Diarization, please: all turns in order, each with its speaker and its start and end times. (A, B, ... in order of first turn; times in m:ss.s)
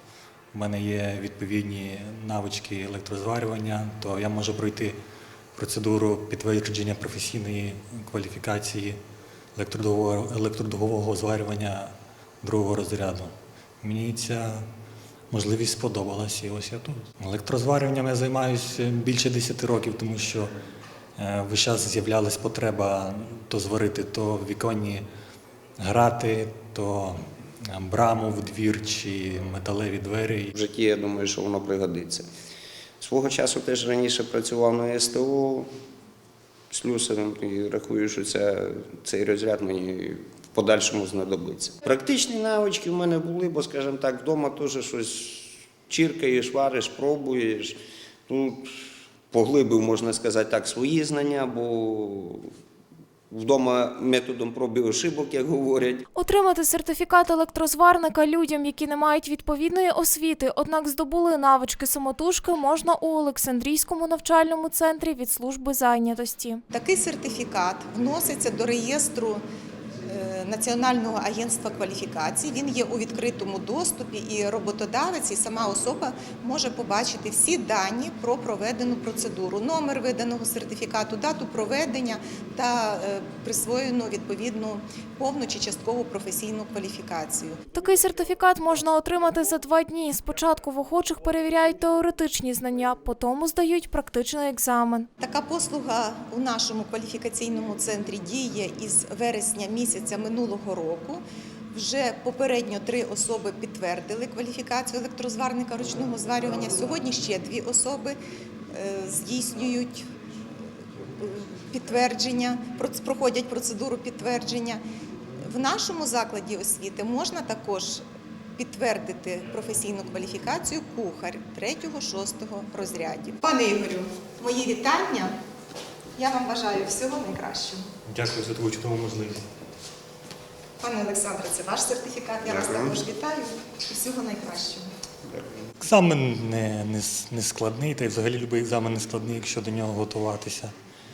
0:00.5-0:05.0 A
0:05.6-0:09.0 A
0:09.6-0:14.7 A
0:15.3-0:20.5 A
0:21.2-0:25.0 A
0:25.8-0:30.6 A
0:30.5-0:32.3 B
0:33.0-0:35.7 B
0:36.7-0:47.8 B
0:48.3-0:52.5 B
0:53.3-0:56.0 B
0:56.2-1:06.6 C
1:06.7-1:09.4 D
1:10.0-1:27.6 D
1:27.7-1:35.1 C
1:35.2-1:48.2 D
1:48.7-1:50.1 D
1:51.2-1:54.8 D
1:55.4-1:58.0 D
1:58.6-2:05.4 D
2:06.2-2:07.9 D
2:08.1-2:09.5 A
2:10.8-2:14.9 D
2:12.4-2:13.0 B
2:15.8-2:20.7 A